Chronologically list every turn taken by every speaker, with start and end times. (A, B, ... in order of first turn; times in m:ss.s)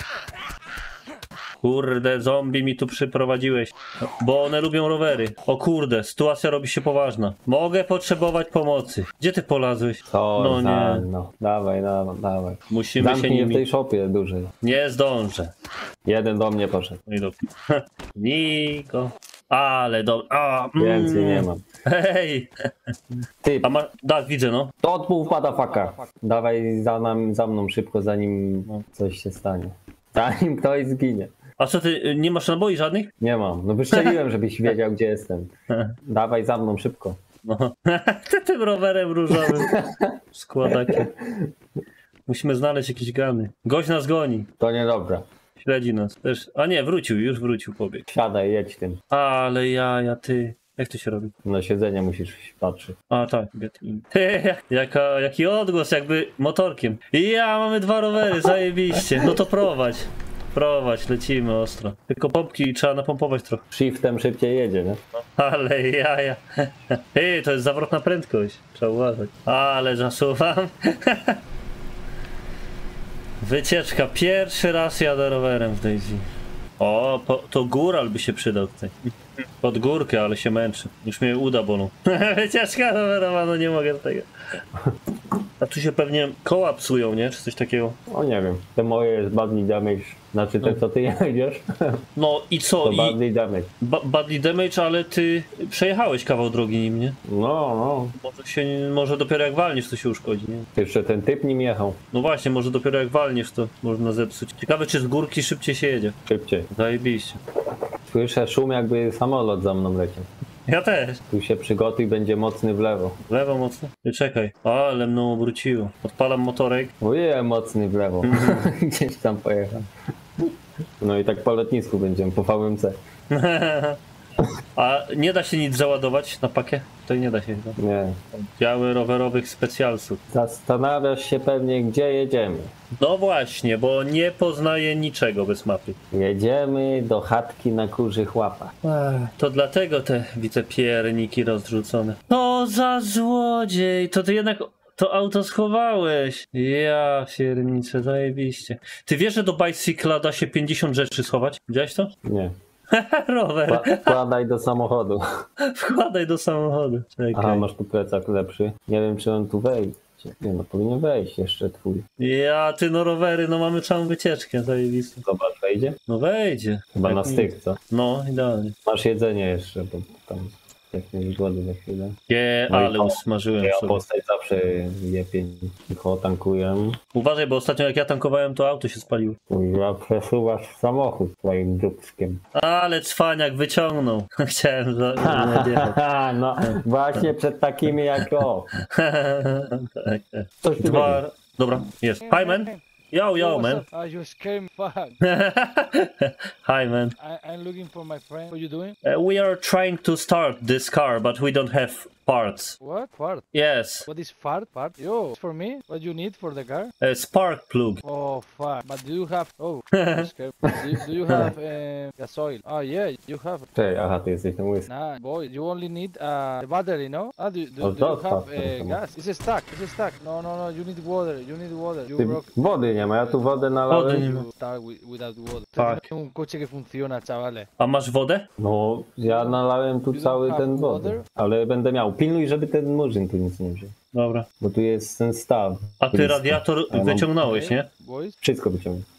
0:01.6-0:11.1 A
0:10.1-0:14.5 B
0:12.7-0:13.7 A
0:14.6-0:15.5 A
0:16.0-0:17.0 B
0:17.1-0:22.9 A
0:20.8-0:21.6 B
0:23.4-0:23.7 B
0:23.6-0:24.7 A
0:24.8-0:31.3 B
0:25.4-0:26.1 C
0:31.6-0:33.1 A
0:33.2-0:35.5 B
0:35.7-0:36.0 A
0:36.0-0:37.2 B
0:37.4-0:39.8 A
0:39.3-0:41.5 B
0:40.3-0:41.1 A
0:42.3-0:44.5 A
0:44.6-0:45.2 B
0:45.6-0:48.1 A
0:48.1-0:49.0 B
0:49.1-0:51.3 A
0:51.4-0:53.0 B
0:53.1-1:03.6 A
0:59.1-0:59.4 B
1:03.7-1:05.0 B
1:05.2-1:11.4 A
1:13.4-1:16.2 A
1:16.8-1:24.3 A
1:25.6-1:28.0 A
1:28.1-1:32.0 B
1:32.2-1:33.2 A
1:32.8-1:33.7 B
1:33.8-1:37.2 A
1:37.3-1:38.2 B
1:38.2-1:40.7 A
1:40.8-1:42.0 B
1:42.1-1:46.2 A
1:46.3-1:46.7 B
1:46.7-1:47.4 A
1:48.1-1:50.3 B
1:50.7-1:51.2 A
1:51.3-1:53.2 B
1:53.3-1:56.9 A
1:57.0-1:59.9 B
1:58.2-1:58.7 A
2:01.0-2:03.0 B
2:03.3-2:04.0 A
2:04.8-2:07.8 A
2:07.8-2:08.2 B
2:08.3-2:10.2 A
2:10.3-2:12.7 B
2:13.0-2:16.0 A
2:16.1-2:18.7 B
2:18.8-2:32.1 A
2:32.2-2:32.5 B
2:32.9-2:34.2 A
2:33.7-2:35.4 B
2:35.6-2:37.7 A
2:37.3-2:42.0 B
2:42.2-2:45.2 A
2:45.2-2:46.0 B
2:46.1-2:48.8 A
2:47.0-2:47.8 B
2:48.9-2:52.2 B
2:52.3-2:54.0 A
2:52.7-2:57.0 B
2:57.1-2:59.4 A
2:59.5-3:02.4 B
3:02.5-3:06.0 A
3:05.2-3:08.7 B
3:06.6-3:07.2 A
3:08.7-3:13.8 A
3:10.6-3:11.2 B
3:12.2-3:12.8 C
3:13.4-3:15.2 C
3:15.2-3:17.2 A
3:17.2-3:19.0 C
3:19.0-3:22.8 A
3:22.8-3:23.4 C
3:23.5-3:24.1 A
3:24.1-3:26.9 C
3:27.0-3:28.0 A
3:28.0-3:33.7 C
3:29.9-3:30.3 A
3:30.7-3:31.5 B
3:33.7-3:34.9 B
3:34.9-3:47.7 C
3:37.8-3:39.0 B
3:42.2-3:44.3 B
3:43.9-3:44.5 A
3:45.8-3:46.0 A
3:47.8-3:48.5 A
3:48.6-3:53.9 B
3:49.3-3:49.6 C
3:50.1-3:51.2 C
3:54.1-3:54.5 A
3:54.6-3:57.3 B
3:56.0-3:57.9 A
3:57.4-3:58.4 C
3:58.4-3:59.0 B